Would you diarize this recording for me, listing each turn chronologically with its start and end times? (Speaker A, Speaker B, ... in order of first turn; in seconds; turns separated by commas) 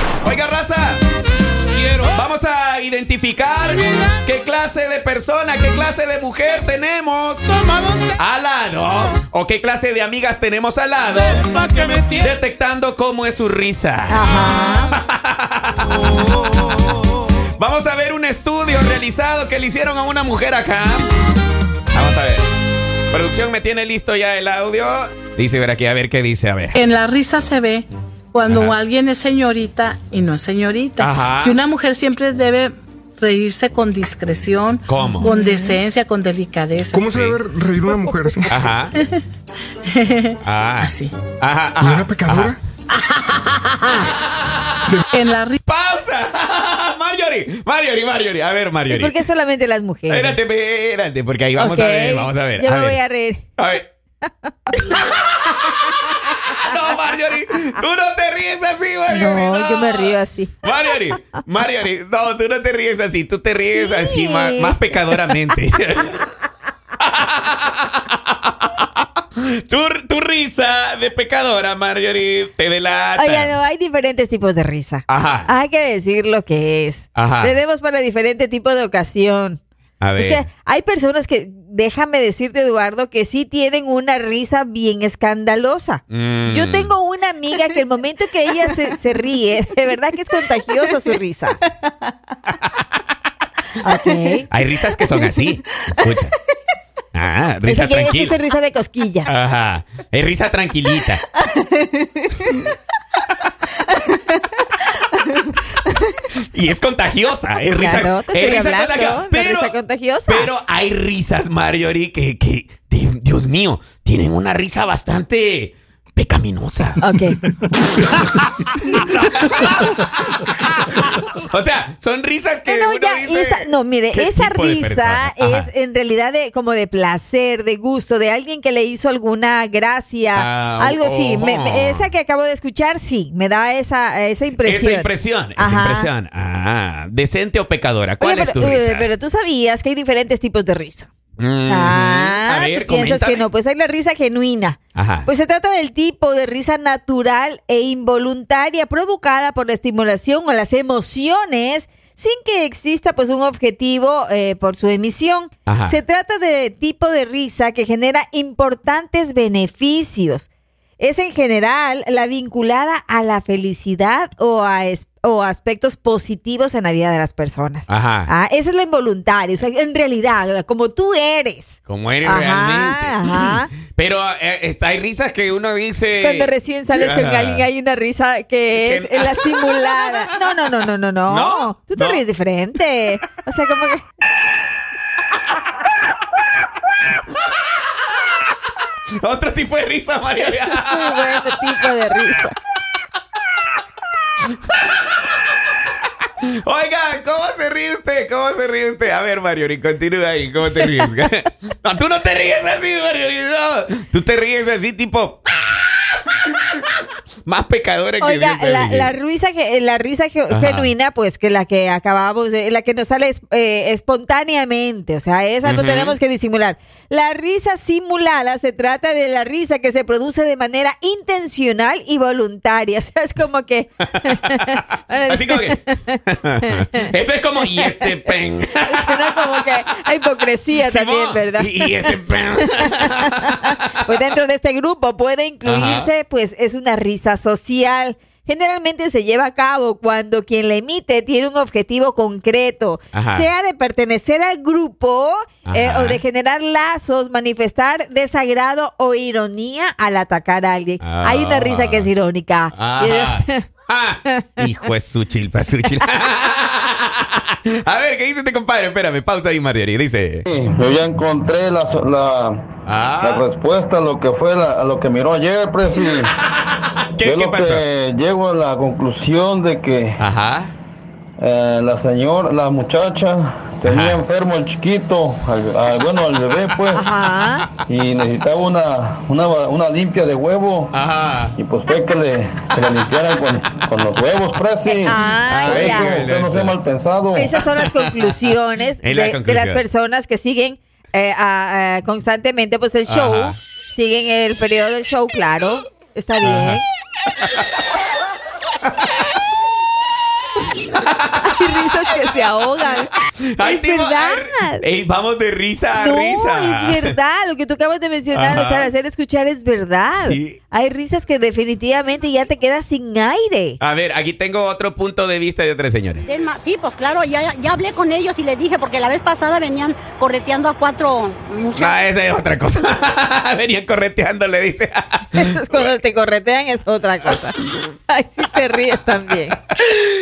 Speaker A: 0.2-1.0, Speaker A: 2.1-16.8, Speaker B: 14.1-14.9, Speaker A: 17.6-21.1, Speaker A: 21.9-22.5, Speaker A: 23.1-26.8, Speaker C: 26.8-37.2, Speaker A: 28.5-28.8, Speaker A: 31.0-31.6, Speaker A: 34.9-35.3, Speaker D: 36.9-38.5, Speaker A: 37.0-37.4, Speaker C: 37.8-39.2, Speaker A: 38.5-39.0, Speaker C: 39.9-41.1, Speaker A: 40.4-42.6, Speaker D: 41.8-42.6, Speaker A: 43.9-45.0, Speaker C: 45.1-45.6, Speaker A: 45.7-49.2, Speaker B: 48.9-50.5, Speaker A: 50.1-53.0, Speaker B: 51.6-53.5, Speaker A: 53.6-53.9, Speaker A: 54.8-66.3, Speaker B: 59.1-60.6, Speaker B: 63.5-64.8, Speaker A: 67.0-73.5, Speaker B: 73.2-79.6, Speaker A: 75.1-75.5, Speaker A: 77.2-77.6, Speaker A: 80.0-80.5, Speaker B: 80.2-91.6, Speaker A: 86.1-86.9, Speaker B: 93.8-94.5, Speaker A: 94.5-96.4, Speaker A: 97.1-98.3, Speaker B: 97.7-99.3, Speaker A: 99.3-101.3, Speaker B: 101.4-102.7, Speaker B: 103.9-105.3, Speaker A: 106.4-109.8, Speaker B: 107.8-110.5, Speaker A: 110.3-117.0, Speaker B: 117.0-117.4, Speaker A: 118.4-125.7, Speaker B: 122.7-136.1, Speaker A: 130.3-132.1, Speaker A: 134.6-139.1, Speaker B: 138.2-141.1, Speaker A: 141.4-143.4, Speaker B: 141.7-160.5, Speaker A: 144.9-145.3, Speaker A: 155.7-156.0, Speaker B: 161.0-173.7, Speaker A: 167.9-168.3, Speaker A: 171.9-177.7, Speaker B: 176.2-184.0, Speaker A: 178.8-180.3, Speaker A: 181.3-182.2, Speaker A: 189.2-191.4, Speaker B: 190.8-192.6, Speaker A: 196.4-206.8, Speaker A: 207.4-209.1, Speaker B: 208.2-227.0, Speaker A: 210.5-210.9, Speaker A: 215.6-216.2, Speaker A: 224.3-224.6, Speaker A: 225.3-229.5, Speaker B: 227.8-228.1, Speaker B: 228.9-253.7, Speaker A: 230.8-234.1, Speaker A: 235.7-236.1, Speaker A: 243.1-243.5, Speaker A: 245.7-246.2, Speaker A: 251.0-252.1, Speaker A: 252.7-260.5, Speaker E: 260.5-262.7, Speaker A: 262.9-263.4, Speaker E: 263.2-266.3, Speaker A: 266.1-267.8, Speaker E: 267.2-270.2, Speaker A: 270.2-270.7, Speaker E: 271.4-277.1, Speaker A: 273.9-274.2, Speaker B: 276.9-277.7, Speaker E: 277.8-280.9, Speaker A: 280.9-281.6, Speaker E: 281.6-287.5, Speaker B: 285.0-286.2, Speaker A: 285.5-286.8, Speaker B: 287.3-296.9, Speaker A: 287.6-288.5, Speaker A: 289.0-289.8, Speaker A: 293.1-293.6, Speaker A: 296.4-296.8, Speaker A: 301.0-301.5, Speaker B: 301.4-304.9, Speaker A: 303.5-307.1, Speaker B: 306.0-313.8, Speaker A: 308.3-308.9, Speaker A: 310.1-310.6, Speaker A: 313.8-316.2, Speaker F: 316.3-321.9, Speaker A: 321.7-325.9, Speaker B: 325.3-327.5, Speaker B: 328.1-329.6